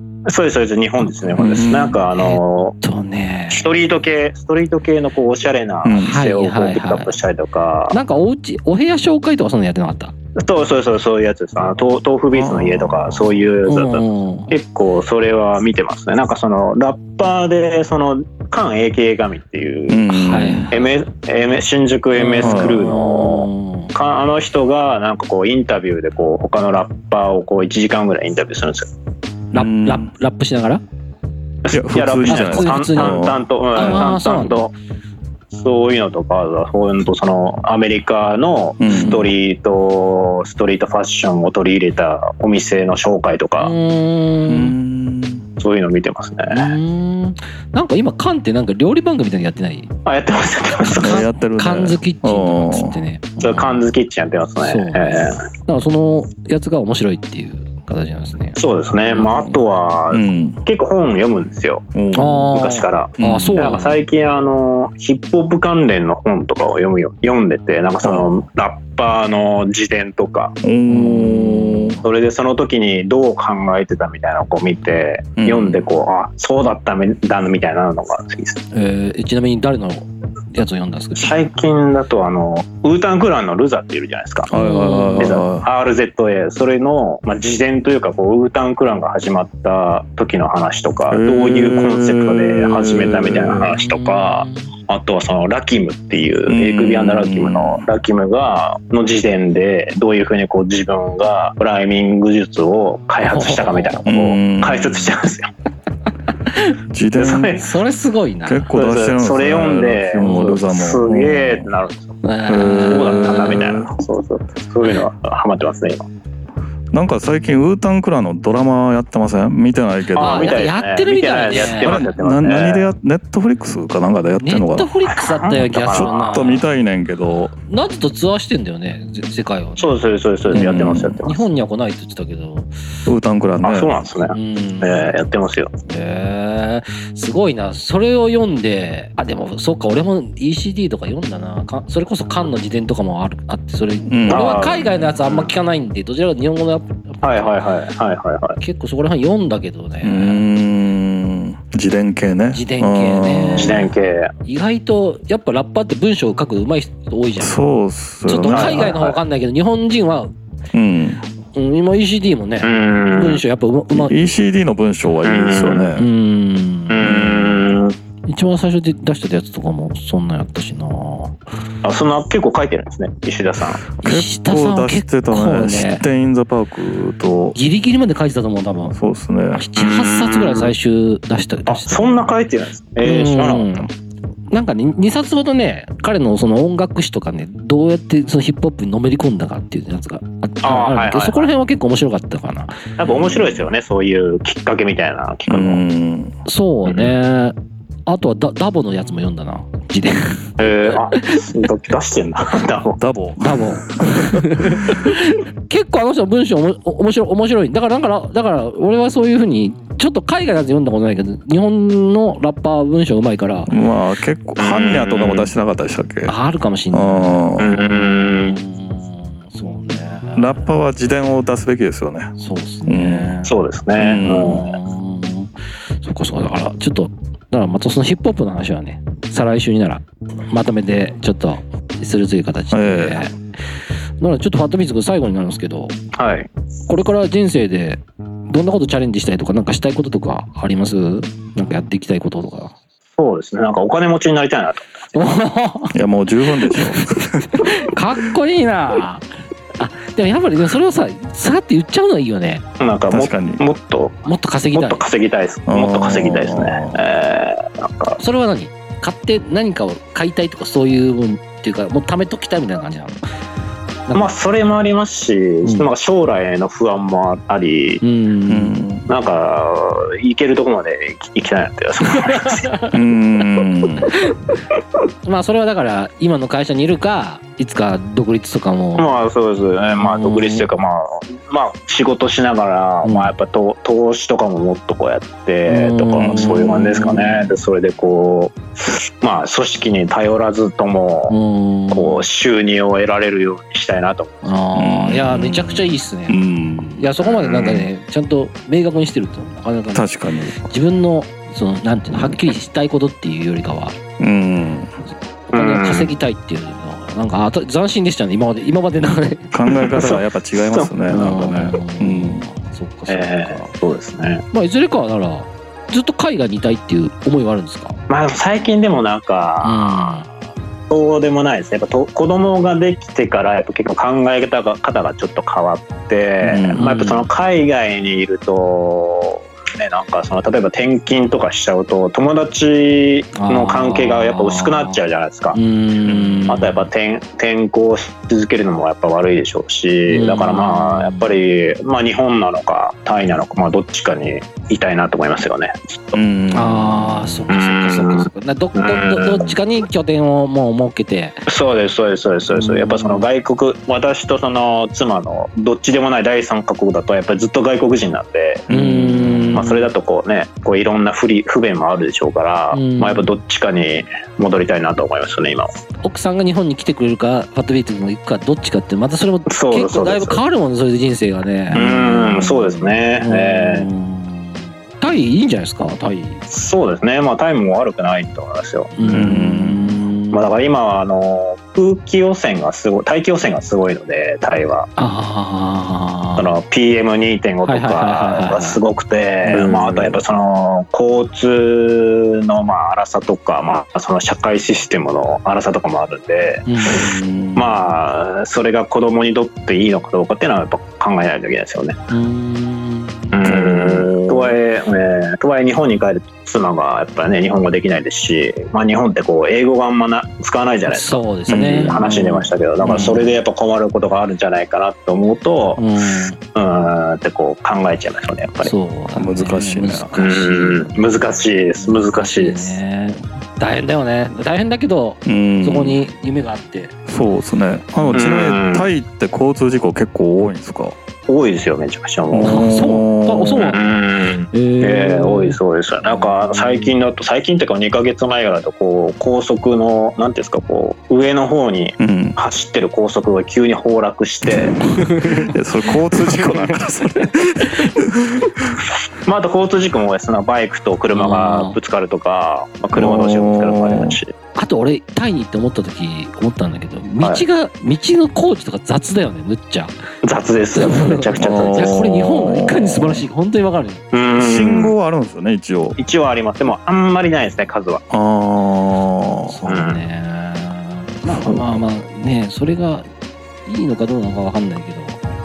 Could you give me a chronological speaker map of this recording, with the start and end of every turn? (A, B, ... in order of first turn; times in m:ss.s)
0:00.2-0:02.8 A
0:01.3-0:03.7 B
0:01.4-0:02.0 C
0:03.5-0:08.0 A
0:05.8-0:06.2 C
0:06.0-0:07.1 B
0:07.9-0:10.1 B
0:10.4-0:20.2 A
0:12.3-0:13.4 C
0:13.6-0:14.5 B
0:19.9-0:20.7 C
0:20.1-0:20.9 B
0:20.7-0:28.9 A
0:22.1-0:23.9 B
0:22.4-0:22.9 C
0:29.5-0:30.1 C
0:29.5-0:30.8 B
0:31.6-0:34.7 A
0:31.7-0:34.0 C
0:32.3-0:34.7 B
0:35.5-0:43.7 A
0:38.8-0:39.3 C
0:38.9-0:39.2 B
0:43.6-0:44.8 B
0:44.5-0:45.4 C
0:45.6-0:46.8 A
0:46.5-0:49.9 B
0:50.0-0:51.2 A
0:50.9-0:53.8 B
0:50.9-0:53.0 C
0:53.4-0:55.4 A
0:54.6-0:59.6 B
0:58.6-1:01.9 A
1:00.1-1:00.6 C
1:01.9-1:02.5 C
1:02.1-1:04.0 B
1:02.5-1:10.5 A
1:03.2-1:03.7 C
1:08.0-1:08.3 C
1:10.6-1:12.0 C
1:10.9-1:12.0 B
1:12.0-1:18.6 A
1:15.4-1:15.8 C
1:18.7-1:21.4 B
1:21.2-1:24.5 A
1:24.5-1:25.7 C
1:24.5-1:25.4 B
1:25.2-1:45.5 A
1:31.1-1:33.7 C
1:33.7-1:34.7 B
1:36.5-1:37.8 C
1:43.2-1:44.1 B
1:44.0-1:45.1 C
1:46.5-1:46.7 B
1:46.9-1:47.6 C
1:47.2-1:47.7 A
1:47.5-1:48.7 B
1:48.4-1:51.7 C
1:48.7-1:52.1 A
1:50.2-1:50.6 B
1:52.2-1:53.6 B
1:52.5-1:53.9 C
1:52.9-1:56.1 A
1:56.9-2:00.7 C
2:00.1-2:02.9 A
2:00.2-2:02.0 B
2:01.7-2:04.9 C
2:04.4-2:06.7 B
2:05.4-2:06.3 A
2:05.9-2:07.5 C
2:07.7-2:12.7 B
2:09.8-2:11.4 A
2:10.5-2:11.2 C
2:13.0-2:14.0 C
2:13.6-2:15.7 A
2:14.3-2:15.1 B
2:15.9-2:27.6 B
2:24.1-2:24.7 C
2:24.3-2:25.5 A
2:27.2-2:28.6 A
2:28.6-2:30.5 B
2:30.0-2:33.9 C
2:32.5-2:33.9 B
2:33.6-2:34.3 A
2:34.4-2:37.6 B
2:37.4-2:39.0 C
2:38.2-2:40.3 B
2:38.5-2:39.2 A
2:40.7-2:41.2 C
2:41.5-2:44.2 B
2:42.6-2:43.4 A
2:43.9-2:46.1 C
2:45.2-2:45.9 A
2:46.0-2:47.5 B
2:46.9-2:47.9 A
2:47.0-2:47.5 C
2:48.3-2:51.4 B
2:51.8-2:53.8 A
2:54.0-2:56.0 B
2:54.0-2:57.6 C
2:57.5-2:59.0 B
2:58.9-2:59.6 C
2:59.5-3:02.3 B
2:59.8-3:00.7 A
3:01.7-3:03.7 A
3:03.0-3:03.9 B
3:04.5-3:12.9 B
3:10.6-3:11.5 A
3:13.0-3:15.8 A
3:15.5-3:16.4 C
3:16.4-3:17.6 B
3:18.1-3:21.4 B
3:20.6-3:23.0 A
3:23.0-3:24.9 C
3:23.4-3:33.7 B
3:33.7-3:36.3 C
3:34.6-3:35.5 A
3:36.2-3:40.6 B
3:36.9-3:37.7 C
3:37.6-3:38.6 A
3:40.4-3:42.3 C
3:42.4-3:43.5 B
3:42.8-3:43.4 C
3:43.4-3:44.7 A
3:44.0-3:44.6 C
3:44.2-3:53.4 B
3:52.7-3:53.2 C
3:54.2-3:56.0 B
3:56.1-3:56.5 A
3:56.9-4:02.7 B
4:03.2-4:05.1 A
4:05.1-4:06.0 B
4:05.9-4:07.7 C
4:06.5-4:09.2 B
4:09.8-4:12.6 B
4:12.8-4:18.2 A
4:13.1-4:13.6 C
4:14.2-4:15.0 B
4:15.7-4:17.0 C
4:18.2-4:23.2 B
4:24.1-4:28.0 A
4:28.0-4:28.8 B
4:28.5-4:29.1 C
4:29.0-4:32.7 A
4:32.2-4:32.9 B
4:32.9-4:34.1 C
4:34.2-4:34.6 B
4:35.2-4:39.1 B
4:39.0-4:51.3 A
4:40.0-4:40.6 B
4:43.0-4:43.3 B
4:45.7-4:47.5 B
4:46.2-4:47.0 C
4:51.3-4:52.2 B
4:51.9-4:54.5 A
4:54.4-4:56.4 B
4:54.8-4:57.1 C
4:57.0-5:04.0 B
4:57.2-4:57.9 A
4:59.9-5:00.6 C
5:04.2-5:04.9 C
5:05.5-5:09.5 B
5:05.5-5:06.1 A
5:09.5-5:12.5 C
5:09.8-5:11.7 A
5:11.1-5:13.7 B
5:13.1-5:14.4 A
5:14.5-5:18.0 B
5:18.1-5:20.2 A
5:19.6-5:20.3 B
5:20.9-5:35.6 A
5:26.4-5:26.8 C
5:26.8-5:27.3 B
5:33.4-5:35.0 B
5:35.5-5:36.9 B
5:36.0-5:36.5 C
5:36.5-5:46.2 A
5:40.1-5:41.3 B
5:46.1-5:47.4 C
5:46.5-5:51.4 B
5:47.5-5:49.6 A
5:51.5-5:58.6 A
5:52.5-5:53.2 B
5:58.7-5:59.6 C
5:58.7-5:59.8 B
5:59.5-6:05.7 A
6:02.7-6:03.3 B
6:06.0-6:16.5 B
6:09.5-6:10.4 A
6:11.7-6:13.9 A
6:16.5-6:19.3 A
6:18.9-6:20.4 B
6:19.1-6:20.0 C
6:20.3-6:24.9 A
6:25.0-6:26.5 B
6:26.4-6:42.0 A
6:27.6-6:28.8 B
6:29.5-6:30.2 C
6:36.6-6:37.1 B
6:36.9-6:37.8 C
6:42.1-6:43.4 B
6:43.3-6:55.9 A
6:43.4-6:44.6 C
6:50.9-6:53.4 B
6:51.5-6:52.0 C
6:55.8-6:56.4 B
6:56.4-6:58.7 A
6:58.6-7:06.9 B
6:59.1-7:00.1 C
7:00.2-7:02.8 A
7:05.2-7:06.0 C
7:07.1-7:11.0 C
7:08.1-7:08.9 A
7:11.3-7:12.6 A
7:12.3-7:13.7 C
7:12.4-7:13.8 B
7:13.6-7:24.8 A
7:14.5-7:16.9 B
7:22.0-7:22.4 C
7:24.9-7:25.5 B
7:25.3-7:28.7 C
7:26.1-7:27.3 B
7:29.2-7:34.3 A
7:31.1-7:31.8 B
7:32.9-7:34.2 C
7:34.6-7:39.9 B
7:40.2-7:42.0 A
7:40.7-7:44.0 B
7:41.4-7:43.2 C
7:44.1-7:44.9 A
7:44.4-7:46.0 C
7:46.0-7:48.0 A
7:48.1-7:49.6 C
7:49.5-7:53.1 B
7:49.7-7:50.0 A
7:51.3-7:51.8 C
7:53.6-7:55.2 B